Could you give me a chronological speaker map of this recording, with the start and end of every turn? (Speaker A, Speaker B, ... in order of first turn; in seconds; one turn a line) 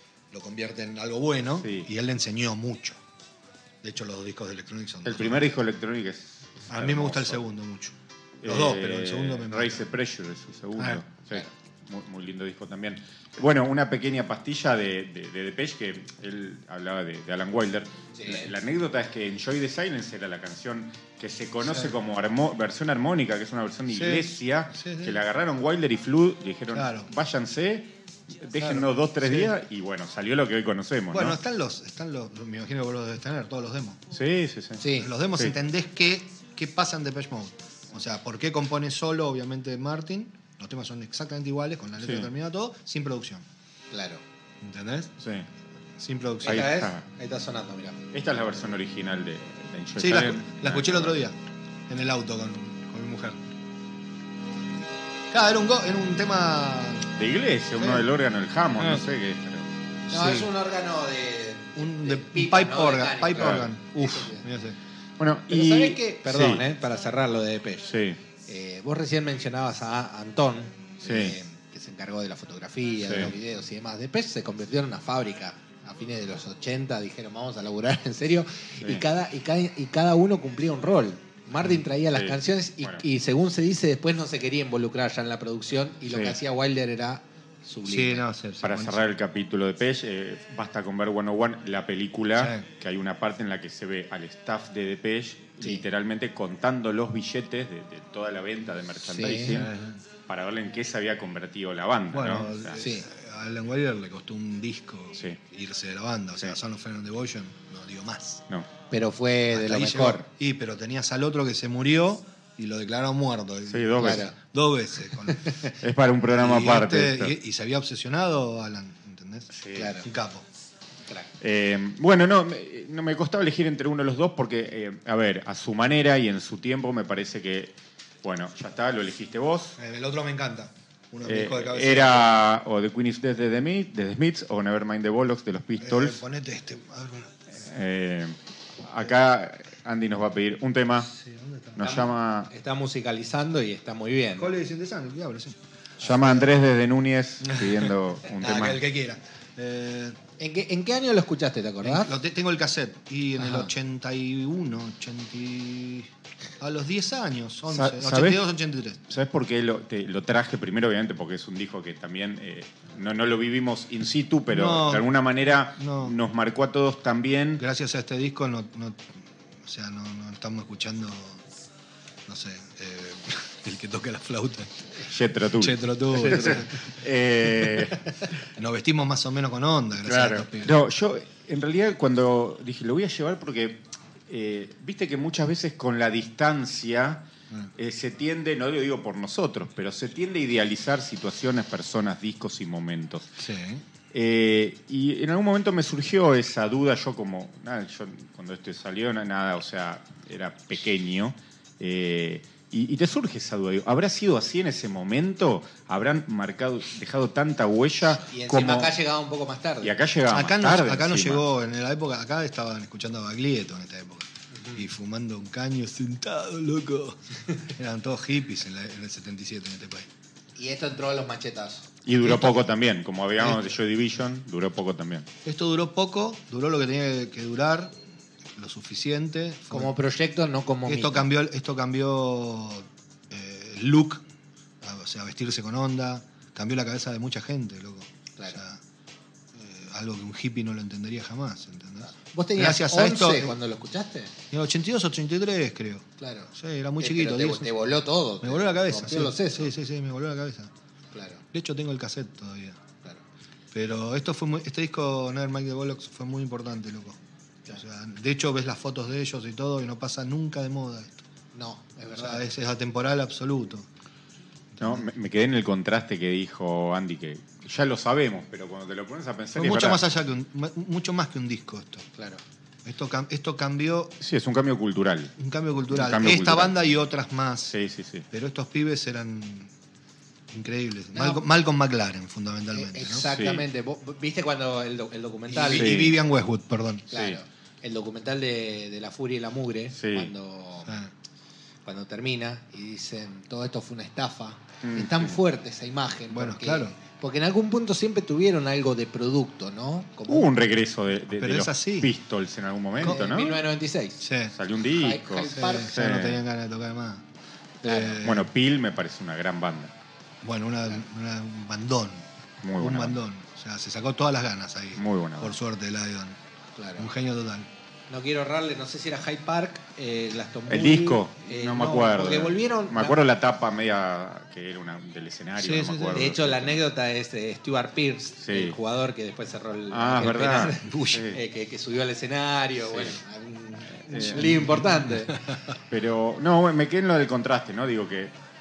Speaker A: 0.3-3.0
Speaker B: 1.6-1.9
Speaker A: 3.8-5.6
Speaker B: 5.0-7.4
Speaker A: 6.7-9.9
Speaker B: 8.4-31.4
Speaker A: 10.8-11.0
Speaker C: 18.1-18.5
Speaker A: 21.6-21.9
Speaker A: 23.9-25.2
Speaker A: 26.7-27.1
Speaker A: 28.6-29.6
Speaker A: 31.1-34.0
Speaker B: 34.1-34.8
Speaker C: 34.8-35.1
Speaker A: 34.9-43.5
Speaker B: 42.0-42.3
Speaker C: 43.9-44.2
Speaker A: 44.6-45.1
Speaker B: 45.2-45.5
Speaker A: 46.0-46.8
Speaker C: 46.4-48.0
Speaker B: 46.4-47.0
Speaker B: 48.1-51.2
Speaker A: 50.0-51.4
Speaker A: 51.9-53.4
Speaker A: 55.3-57.2
Speaker B: 57.2-59.7
Speaker A: 57.8-58.1
Speaker A: 58.8-59.0
Speaker A: 60.1-60.5
Speaker C: 60.1-64.5
Speaker A: 61.8-64.8
Speaker B: 63.4-63.7
Speaker B: 65.2-66.7
Speaker C: 65.5-67.9
Speaker B: 67.9-68.2
Speaker C: 68.5-88.2
Speaker B: 71.0-71.4
Speaker B: 73.0-73.3
Speaker B: 82.1-83.0
Speaker B: 86.1-86.4
Speaker A: 87.8-89.1
Speaker B: 88.6-99.7
Speaker A: 92.4-92.7
Speaker C: 99.1-99.6
Speaker A: 99.5-100.0
Speaker B: 100.3-102.8
Speaker A: 102.1-108.4
Speaker C: 102.8-103.1
Speaker C: 108.9-110.3
Speaker A: 109.5-115.6
Speaker B: 113.7-114.3
Speaker C: 114.0-114.3
Speaker C: 115.4-115.7
Speaker B: 115.7-117.3
Speaker A: 116.4-120.5
Speaker B: 119.5-120.0
Speaker C: 119.7-120.1
Speaker B: 121.4-129.8
Speaker A: 129.8-132.4
Speaker B: 131.3-136.2
Speaker A: 135.8-137.4
Speaker B: 137.5-141.1
Speaker A: 141.1-141.9
Speaker B: 141.8-142.5
Speaker C: 141.8-144.6
Speaker A: 144.4-146.5
Speaker B: 146.0-148.8
Speaker A: 147.4-150.2
Speaker C: 150.4-152.2
Speaker A: 151.8-159.0
Speaker C: 153.4-153.7
Speaker B: 157.7-158.4
Speaker B: 159.1-167.6
Speaker A: 164.5-165.1
Speaker A: 165.8-166.2
Speaker A: 167.6-171.4
Speaker A: 172.3-175.1
Speaker B: 175.0-178.5
Speaker A: 175.6-176.9
Speaker A: 178.5-180.8
Speaker B: 180.1-193.3
Speaker A: 193.4-193.8
Speaker B: 194.1-208.9
Speaker C: 208.3-209.9
Speaker B: 209.8-211.4
Speaker A: 210.3-220.1
Speaker C: 214.5-214.8
Speaker C: 220.6-221.9
Speaker B: 222.1-225.3
Speaker A: 223.4-223.7
Speaker A: 225.4-228.0
Speaker A: 228.6-229.9
Speaker C: 229.7-231.3
Speaker A: 230.9-234.2
Speaker A: 234.8-238.8
Speaker A: 239.5-243.6
Speaker C: 242.1-244.3
Speaker A: 244.5-247.8
Speaker C: 246.2-249.7
Speaker A: 248.4-250.7
Speaker C: 251.1-251.4
Speaker A: 251.5-252.8
Speaker A: 253.7-261.2
Speaker C: 261.5-262.5
Speaker A: 262.1-263.9
Speaker A: 264.7-265.1
Speaker B: 264.8-270.0
Speaker A: 269.6-272.1
Speaker C: 272.2-272.4
Speaker A: 272.9-274.1
Speaker B: 274.2-275.4
Speaker A: 275.4-277.8
Speaker B: 275.9-276.7
Speaker B: 277.7-278.2
Speaker A: 278.3-279.7
Speaker A: 280.5-283.3
Speaker C: 281.1-281.4
Speaker C: 282.7-285.9
Speaker B: 283.3-283.7
Speaker A: 285.5-287.1
Speaker B: 285.7-286.2
Speaker B: 287.1-287.4
Speaker C: 287.1-291.0
Speaker B: 289.9-290.3
Speaker A: 290.8-291.1
Speaker C: 291.9-300.5
Speaker B: 294.8-295.4
Speaker A: 296.3-297.0
Speaker B: 300.3-303.6
Speaker A: 301.3-302.1
Speaker A: 303.0-303.2
Speaker C: 303.0-304.3
Speaker A: 304.2-304.6
Speaker B: 304.5-306.4
Speaker C: 304.9-306.0
Speaker A: 305.6-307.2
Speaker C: 307.8-308.2
Speaker A: 307.8-308.5
Speaker B: 308.2-309.9
Speaker A: 310.4-312.3
Speaker B: 312.6-313.2
Speaker A: 312.8-316.4
Speaker B: 315.0-315.6
Speaker C: 316.8-317.1
Speaker A: 317.0-317.7
Speaker C: 318.1-323.2
Speaker B: 320.7-326.8
Speaker A: 325.6-326.2
Speaker C: 326.1-335.4
Speaker B: 328.4-328.8
Speaker B: 329.9-331.4
Speaker A: 330.9-331.3
Speaker B: 332.9-333.2
Speaker B: 334.1-334.9
Speaker A: 334.5-335.6
Speaker B: 335.8-338.3